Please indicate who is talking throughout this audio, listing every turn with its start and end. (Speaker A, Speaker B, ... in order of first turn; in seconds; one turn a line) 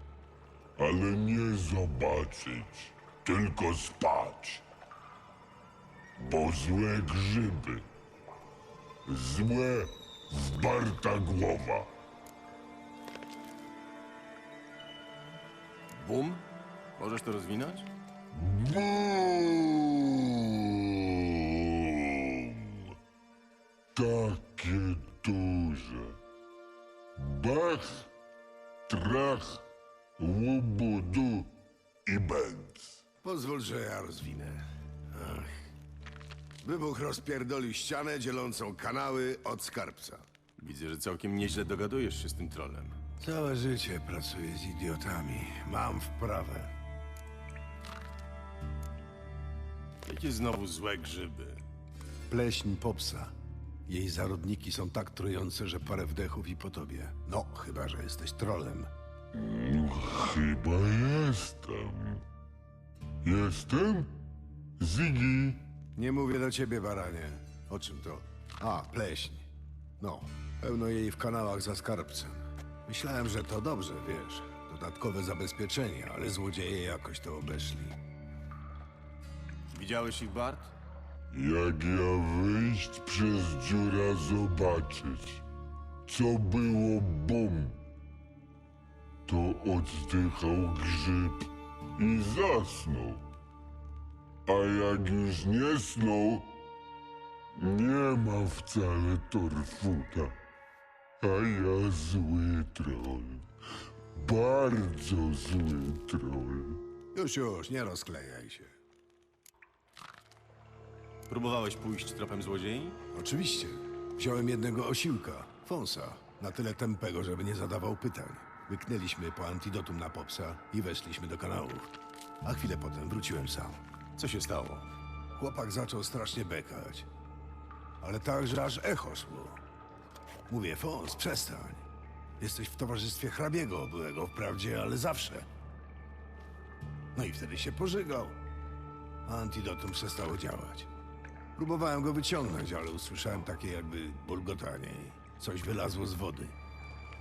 Speaker A: 0.8-4.6
Speaker A: 6.2-7.8
Speaker A: 9.1-11.9
Speaker B: 15.9-16.4
Speaker B: 17.0-17.9
Speaker A: 18.3-22.9
Speaker A: 23.9-26.2
Speaker A: 27.1-28.1
Speaker A: 28.9-29.6
Speaker A: 30.2-31.5
Speaker A: 32.0-33.0
Speaker C: 33.2-35.7
Speaker C: 36.6-40.3
Speaker B: 40.6-43.0
Speaker C: 43.2-46.7
Speaker B: 50.0-51.6
Speaker C: 52.3-53.3
Speaker C: 53.9-58.9
Speaker A: 59.3-62.2
Speaker A: 63.2-64.1
Speaker A: 64.8-65.7
Speaker C: 66.0-69.5
Speaker C: 70.0-78.0
Speaker B: 79.7-80.7
Speaker A: 81.3-85.4
Speaker A: 86.1-87.8
Speaker A: 89.3-93.3
Speaker A: 94.5-96.6
Speaker A: 97.5-100.3
Speaker A: 101.2-103.5
Speaker A: 104.1-106.8
Speaker C: 107.1-108.7
Speaker B: 111.3-113.0
Speaker C: 113.1-123.8
Speaker B: 124.2-124.9
Speaker C: 125.3-127.1
Speaker C: 128.0-129.6
Speaker C: 130.5-131.9
Speaker C: 132.4-135.5
Speaker C: 137.1-138.4
Speaker C: 139.2-140.9
Speaker C: 141.6-146.6